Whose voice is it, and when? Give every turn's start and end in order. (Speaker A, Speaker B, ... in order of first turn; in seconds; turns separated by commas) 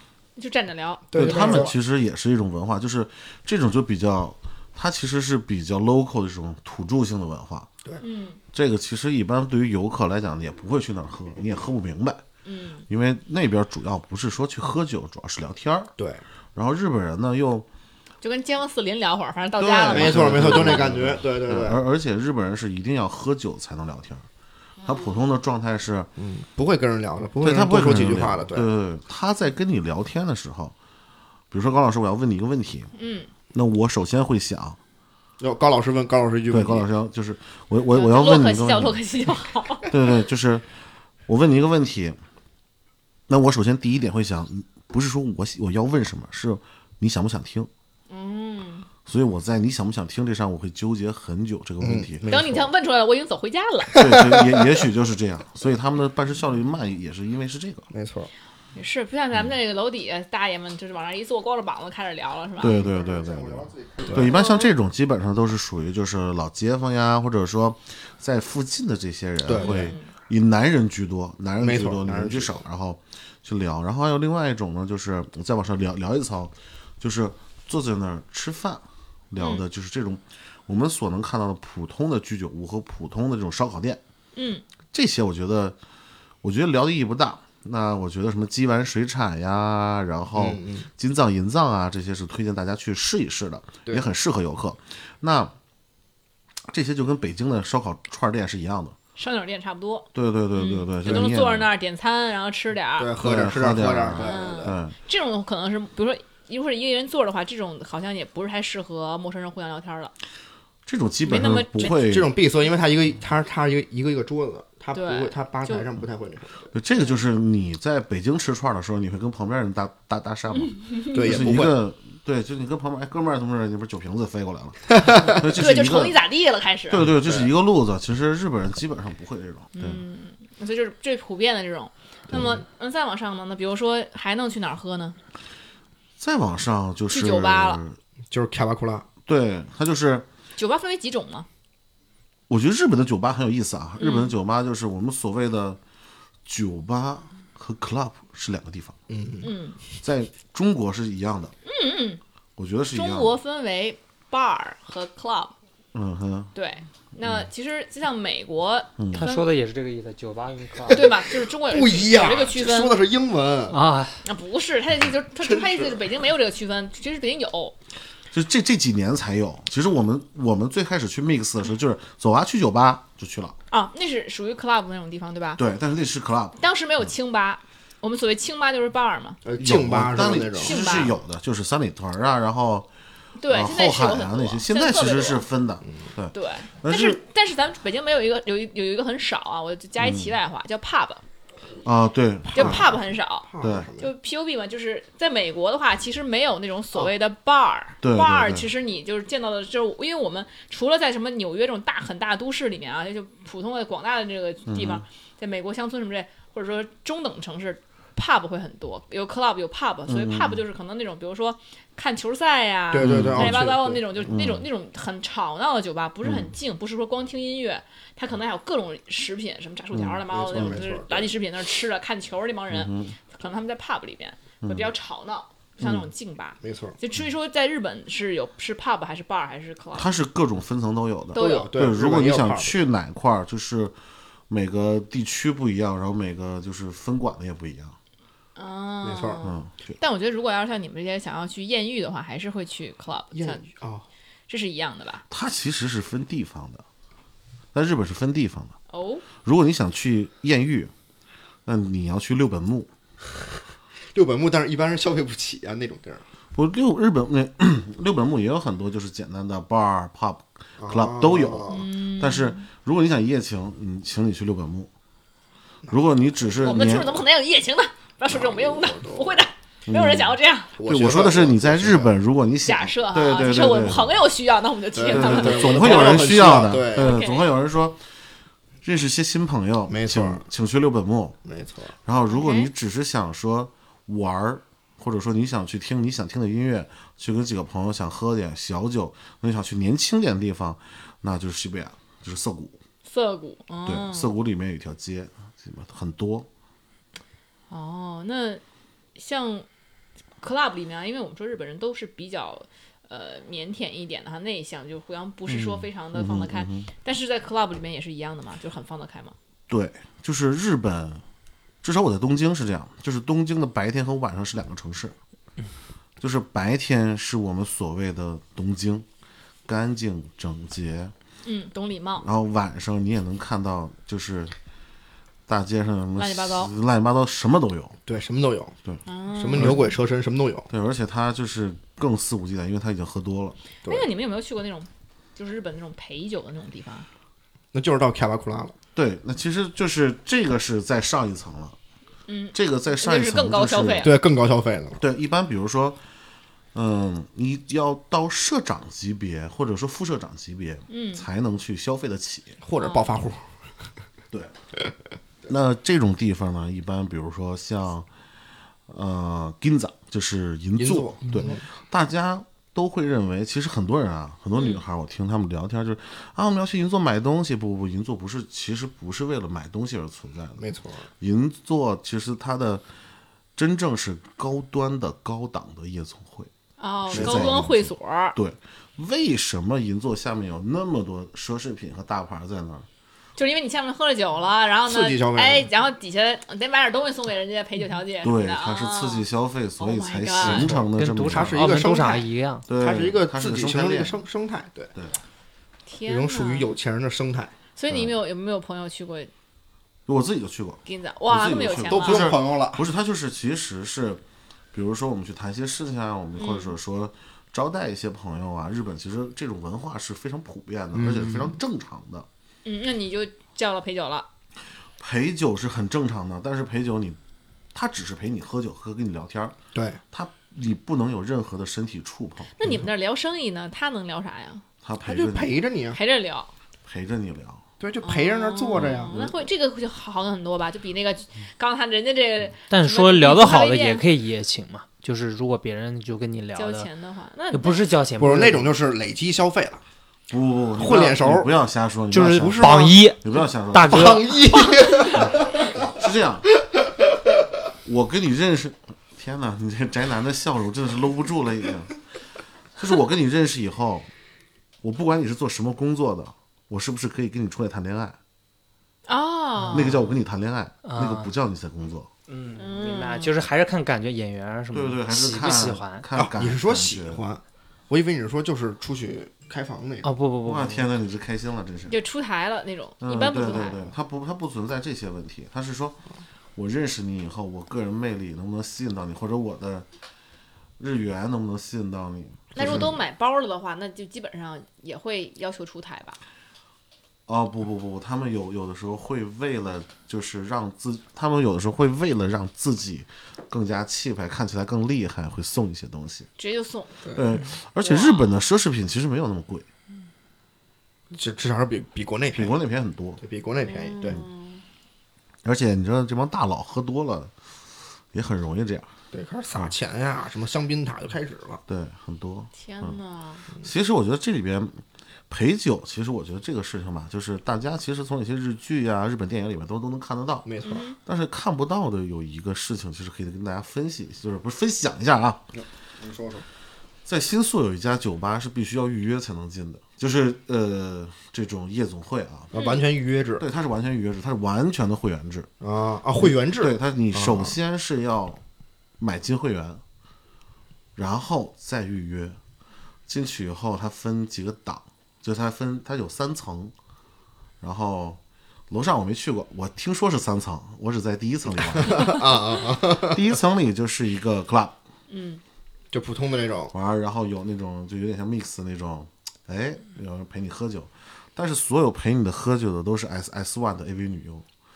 Speaker A: 0.4-1.7, Speaker B: 1.1-1.7, Speaker C: 1.1-7.7, Speaker A: 8.0-8.4, Speaker C: 8.5-12.2, Speaker A: 12.4-12.9, Speaker C: 12.9-15.9, Speaker B: 16.0-16.2, Speaker C: 16.6-17.7, Speaker A: 18.2-20.9, Speaker C: 19.6-24.3, Speaker B: 19.9-21.8, Speaker A: 24.8-25.1, Speaker C: 24.8-26.1, Speaker B: 26.2-28.7, Speaker C: 27.4-30.8, Speaker C: 31.5-32.9, Speaker A: 33.0-33.3, Speaker C: 33.5-34.8, Speaker B: 35.4-36.9, Speaker C: 36.5-39.0, Speaker A: 37.9-39.9, Speaker C: 39.9-40.7, Speaker C: 41.3-42.2, Speaker C: 43.3-47.7, Speaker A: 48.1-48.9, Speaker C: 49.1-52.3, Speaker B: 51.8-52.7, Speaker A: 52.3-54.0, Speaker B: 53.9-54.6, Speaker C: 54.0-57.9, Speaker B: 57.9-58.3, Speaker A: 58.8-62.8, Speaker C: 62.6-84.0, Speaker B: 62.6-64.5, Speaker A: 64.3-64.7, Speaker B: 69.5-69.9, Speaker A: 69.5-70.1, Speaker B: 71.6-72.6, Speaker A: 79.4-79.6, Speaker A: 84.4-84.6, Speaker C: 84.9-85.8, Speaker C: 86.4-95.5, Speaker B: 90.3-90.9, Speaker C: 96.7-99.0, Speaker A: 99.2-103.1, Speaker C: 100.1-101.7, Speaker B: 103.0-104.8, Speaker C: 103.2-104.9, Speaker A: 104.2-110.1, Speaker C: 110.9-112.3, Speaker A: 111.2-112.0, Speaker B: 111.8-116.7, Speaker A: 114.9-115.9, Speaker C: 116.7-126.2, Speaker A: 120.6-121.2, Speaker B: 121.1-121.8, Speaker B: 125.0-125.4, Speaker A: 125.5-127.1, Speaker C: 126.9-130.0, Speaker B: 127.0-127.5, Speaker A: 129.7-135.2, Speaker C: 132.3-132.6, Speaker C: 136.2-138.0, Speaker A: 137.1-137.8, Speaker B: 138.3-139.1, Speaker C: 139.3-140.3, Speaker A: 140.6-141.5, Speaker C: 142.5-145.8, Speaker A: 144.0-144.3, Speaker C: 146.5-149.0, Speaker B: 149.1-149.5, Speaker A: 149.4-149.8, Speaker C: 150.0-151.5, Speaker A: 151.7-152.2, Speaker C: 152.6-153.3, Speaker A: 152.9-155.5, Speaker C: 155.9-156.5, Speaker A: 156.6-159.5, Speaker D: 159.1-161.1, Speaker A: 160.9-163.0, Speaker B: 160.9-163.8, Speaker D: 163.7-164.2, Speaker A: 164.2-167.8, Speaker B: 165.4-166.0, Speaker C: 168.3-173.6, Speaker A: 173.7-175.6, Speaker C: 175.6-176.6, Speaker A: 176.6-179.4, Speaker B: 179.4-181.1, Speaker C: 179.6-182.9, Speaker A: 180.6-181.2, Speaker A: 183.4-185.4, Speaker C: 183.5-187.2, Speaker A: 186.3-191.2, Speaker C: 190.0-190.3, Speaker C: 191.8-192.9, Speaker A: 192.5-230.1, Speaker B: 192.5-194.1, Speaker C: 193.6-193.9, Speaker C: 198.0-198.7, Speaker C: 204.7-205.0, Speaker C: 210.1-210.6, Speaker B: 212.9-214.1, Speaker C: 213.0-213.7, Speaker C: 214.3-214.7, Speaker C: 216.2-216.5, Speaker C: 219.9-220.8, Speaker B: 220.3-221.3, Speaker C: 222.7-223.2, Speaker C: 224.6-224.9, Speaker B: 226.6-227.0, Speaker C: 229.9-233.9, Speaker A: 231.3-231.7, Speaker B: 231.3-232.8, Speaker C: 234.5-238.0, Speaker A: 238.6-243.6, Speaker B: 239.0-239.5, Speaker C: 239.4-239.9, Speaker B: 243.3-244.1, Speaker A: 244.5-245.2, Speaker C: 245.3-246.8, Speaker C: 247.7-248.8, Speaker A: 248.9-249.3, Speaker C: 249.4-250.9, Speaker C: 251.7-252.9, Speaker B: 254.1-256.2, Speaker C: 256.5-264.9, Speaker B: 260.8-261.9, Speaker A: 261.7-262.7, Speaker C: 265.9-267.2, Speaker A: 266.6-270.7, Speaker B: 268.3-269.4, Speaker C: 269.9-274.2, Speaker B: 270.8-272.1, Speaker A: 272.6-277.5, Speaker B: 274.9-277.2, Speaker C: 275.1-278.0, Speaker C: 278.8-281.4, Speaker B: 279.9-280.4, Speaker B: 281.4-281.9, Speaker C: 282.1-292.8, Speaker A: 282.3-282.7, Speaker A: 293.1-294.3, Speaker C: 293.9-296.5, Speaker A: 297.7-298.6, Speaker A: 299.2-299.7, Speaker A: 300.4-309.4, Speaker C: 305.5-306.9, Speaker C: 309.7-311.2, Speaker C: 311.8-315.2, Speaker C: 316.2-319.1, Speaker C: 319.7-321.1, Speaker A: 321.4-322.3, Speaker C: 322.2-324.6, Speaker C: 325.5-328.0, Speaker A: 326.2-326.7, Speaker B: 328.1-328.8, Speaker A: 329.1-329.9, Speaker B: 329.4-330.7, Speaker C: 329.5-329.9, Speaker C: 330.7-333.6, Speaker A: 333.9-337.1, Speaker B: 337.7-338.8, Speaker C: 338.9-341.8, Speaker A: 342.3-344.1, Speaker C: 342.5-344.1, Speaker B: 344.0-345.0, Speaker C: 345.0-346.0, Speaker C: 346.7-352.6, Speaker A: 350.9-351.3, Speaker B: 352.6-353.4, Speaker A: 352.8-353.1, Speaker C: 355.5-358.1, Speaker C: 358.9-370.6, Speaker B: 360.8-361.6, Speaker A: 364.6-364.8, Speaker B: 370.6-371.1, Speaker C: 371.2-372.8, Speaker C: 373.6-376.5, Speaker A: 376.8-378.4, Speaker C: 377.1-382.9, Speaker B: 377.1-377.6, Speaker A: 383.4-389.3, Speaker B: 384.9-385.7, Speaker C: 388.2-391.6, Speaker A: 389.8-390.8, Speaker D: 390.4-392.6, Speaker B: 391.2-394.9, Speaker C: 392.7-394.2, Speaker A: 395.9-396.7, Speaker B: 396.1-397.5, Speaker A: 397.8-399.3, Speaker C: 397.9-398.1, Speaker C: 400.1-404.2, Speaker A: 400.9-402.3, Speaker B: 401.9-402.9, Speaker C: 404.7-412.3, Speaker A: 406.4-406.8, Speaker B: 410.9-411.6, Speaker A: 412.6-414.3, Speaker C: 415.0-417.2, Speaker C: 417.7-419.6, Speaker B: 419.7-420.0, Speaker C: 420.1-422.5, Speaker A: 422.6-424.6, Speaker C: 424.8-425.6, Speaker B: 425.0-426.0, Speaker A: 425.9-426.5, Speaker C: 426.9-427.6, Speaker B: 427.8-429.4, Speaker A: 428.0-434.0, Speaker C: 428.7-429.3, Speaker D: 432.7-436.9, Speaker A: 436.6-437.9, Speaker D: 437.5-438.7, Speaker B: 438.2-439.8, Speaker C: 440.3-444.2, Speaker B: 440.8-441.5, Speaker D: 442.1-444.7, Speaker B: 442.2-443.1, Speaker B: 443.9-445.7, Speaker C: 445.2-446.5, Speaker C: 447.9-451.9, Speaker C: 452.8-454.1, Speaker C: 454.8-458.2, Speaker A: 459.1-460.0, Speaker C: 459.7-462.1, Speaker D: 460.9-461.3, Speaker D: 462.3-466.1, Speaker A: 462.6-463.3, Speaker C: 464.7-467.2, Speaker B: 466.1-470.1, Speaker D: 470.0-470.9, Speaker C: 470.4-472.0, Speaker A: 471.9-473.9, Speaker C: 473.0-476.0, Speaker C: 476.6-479.9, Speaker C: 480.8-482.9, Speaker A: 482.5-486.2, Speaker B: 482.6-482.9, Speaker C: 487.3-496.3, Speaker A: 496.4-497.1, Speaker C: 497.1-499.7, Speaker A: 497.8-498.4, Speaker B: 501.1-502.6, Speaker C: 502.3-503.2, Speaker B: 503.2-504.2, Speaker A: 503.6-504.6, Speaker C: 505.4-507.3, Speaker C: 508.1-508.9, Speaker B: 509.1-511.6, Speaker C: 511.7-513.0, Speaker A: 512.5-513.5, Speaker C: 513.6-525.5, Speaker B: 520.5-520.9, Speaker A: 520.6-521.0, Speaker B: 525.5-526.5, Speaker C: 527.1-532.5, Speaker B: 532.5-533.5, Speaker A: 532.5-532.9, Speaker C: 533.4-535.5, Speaker B: 535.6-537.6, Speaker C: 536.2-538.4, Speaker C: 539.0-539.8, Speaker C: 541.0-542.4, Speaker C: 543.1-546.7, Speaker C: 547.6-552.4, Speaker B: 551.7-553.2, Speaker C: 552.9-554.8, Speaker A: 555.1-555.4, Speaker B: 555.9-556.7, Speaker C: 556.7-564.5